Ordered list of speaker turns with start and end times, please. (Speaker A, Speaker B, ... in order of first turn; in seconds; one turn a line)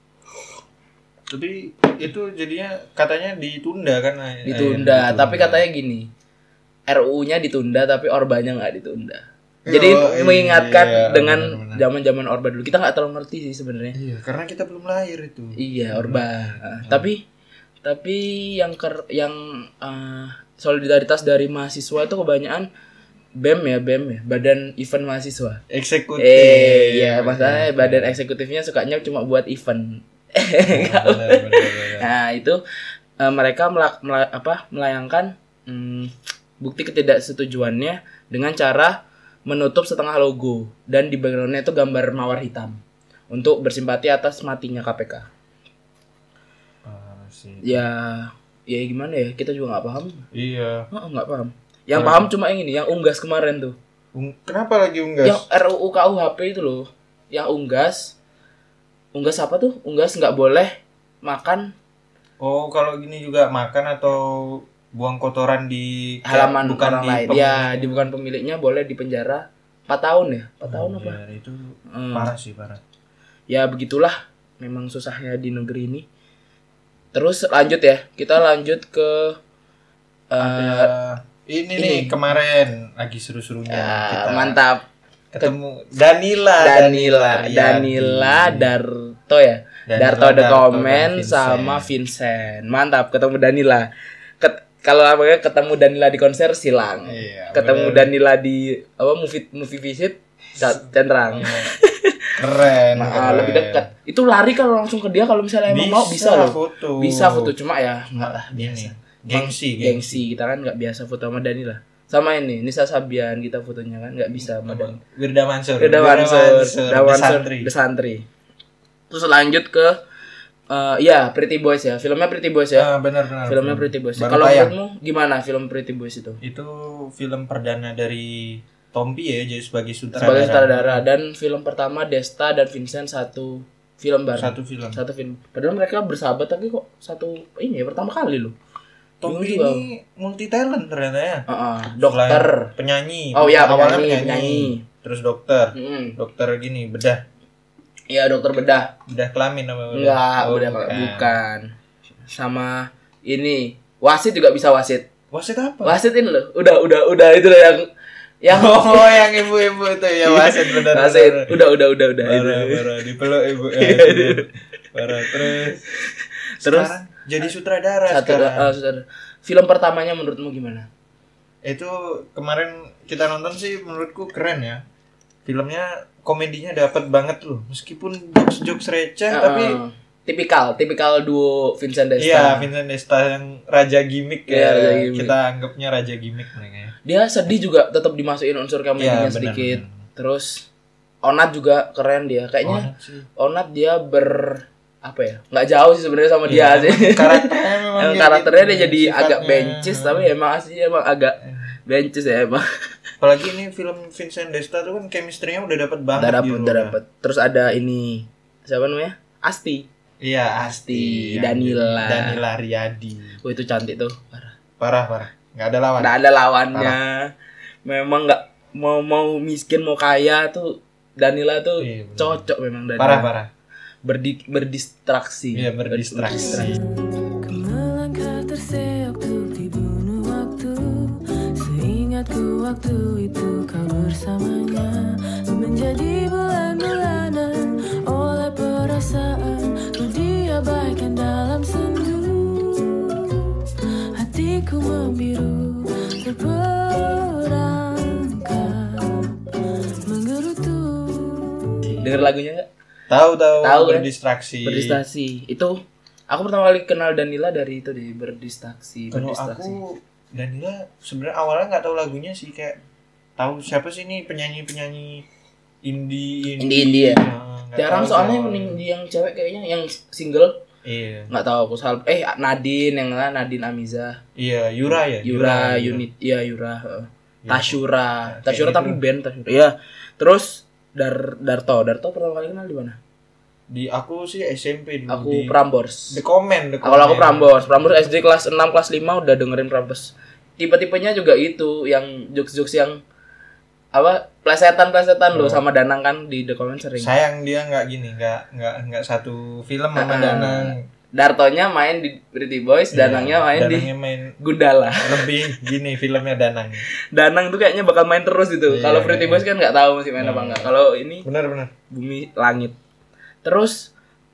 Speaker A: 1.3-5.6
Speaker B: 4.4-6.1
Speaker B: 6.9-13.9
Speaker A: 9.6-11.8
Speaker A: 13.9-17.1
Speaker B: 15.6-17.2
Speaker B: 17.8-22.7
Speaker B: 23.4-25.6
Speaker A: 25.7-28.1
Speaker B: 26.2-32.6
Speaker A: 30.7-32.1
Speaker B: 33.2-42.8
Speaker B: 43.3-45.3
Speaker A: 46.8-47.8
Speaker B: 47.6-50.2
Speaker A: 50.3-50.9
Speaker B: 50.9-53.8
Speaker A: 51.9-52.3
Speaker A: 54.1-55.4
Speaker B: 55.2-58.1
Speaker B: 59.1-61.7
Speaker A: 62.4-68.0
Speaker B: 66.2-71.2
Speaker A: 70.6-72.8
Speaker B: 71.9-72.3
Speaker B: 73.5-76.0
Speaker B: 77.1-79.4
Speaker B: 80.3-80.9
Speaker A: 80.4-84.6
Speaker B: 81.8-82.2
Speaker B: 83.7-84.8
Speaker A: 85.3-88.7
Speaker B: 86.6-93.9
Speaker A: 89.9-91.9
Speaker B: 94.4-102.3
Speaker A: 97.0-98.1
Speaker A: 100.6-101.7
Speaker A: 102.4-103.9
Speaker B: 102.9-115.0
Speaker A: 105.7-107.5
Speaker A: 108.2-110.2
Speaker A: 114.4-117.7
Speaker B: 115.8-118.2
Speaker B: 119.1-120.0
Speaker B: 120.7-122.9
Speaker A: 122.7-124.7
Speaker B: 123.5-126.4
Speaker A: 126.4-131.0
Speaker B: 130.1-138.5
Speaker A: 134.3-135.0
Speaker A: 139.2-141.4
Speaker B: 139.2-139.9
Speaker B: 141.5-142.7
Speaker A: 142.0-147.2
Speaker B: 143.3-144.8
Speaker B: 145.7-146.2
Speaker B: 148.1-148.9
Speaker A: 149.1-151.3
Speaker B: 149.9-151.7
Speaker B: 152.3-155.1
Speaker A: 155.3-156.0
Speaker B: 155.8-157.9
Speaker B: 158.4-159.2
Speaker A: 158.5-161.6
Speaker B: 160.2-162.9
Speaker A: 162.2-165.8
Speaker B: 163.7-164.5
Speaker B: 165.3-166.9
Speaker A: 166.6-168.7
Speaker B: 168.1-170.9
Speaker A: 171.6-174.8
Speaker A: 175.4-179.8
Speaker B: 179.3-182.7
Speaker A: 182.2-186.9
Speaker B: 184.5-185.3
Speaker B: 187.1-190.7
Speaker A: 189.0-190.0
Speaker B: 191.2-202.7
Speaker A: 192.6-193.3
Speaker A: 196.5-200.3
Speaker A: 201.4-201.7
Speaker A: 203.2-206.9
Speaker B: 206.2-209.9
Speaker A: 210.2-213.4
Speaker B: 210.6-212.4
Speaker B: 213.4-214.6
Speaker A: 214.8-216.1
Speaker B: 216.0-217.3
Speaker B: 217.8-223.3
Speaker A: 221.8-222.4
Speaker A: 223.0-223.5
Speaker B: 224.0-226.7
Speaker A: 225.5-226.8
Speaker C: 226.4-243.5
Speaker C: 244.1-251.9
Speaker A: 251.8-252.2
Speaker B: 252.0-252.7
Speaker A: 253.1-255.0
Speaker B: 253.6-254.1
Speaker B: 254.6-259.8
Speaker A: 259.1-262.8
Speaker A: 263.4-265.2
Speaker A: 265.8-268.8
Speaker B: 266.6-270.6
Speaker A: 270.8-271.3
Speaker B: 271.3-274.2
Speaker A: 274.4-276.0
Speaker B: 275.2-283.0
Speaker A: 277.4-279.0
Speaker A: 283.7-285.6
Speaker B: 285.1-286.2
Speaker A: 286.1-288.2
Speaker B: 286.8-293.0
Speaker B: 293.9-297.1
Speaker A: 295.3-295.6
Speaker A: 297.0-300.8
Speaker B: 299.9-305.3
Speaker A: 302.9-304.4
Speaker A: 305.0-306.9
Speaker B: 307.1-311.2
Speaker A: 308.7-309.4
Speaker A: 310.2-310.7
Speaker A: 311.2-311.7
Speaker B: 311.9-312.8
Speaker B: 313.4-313.9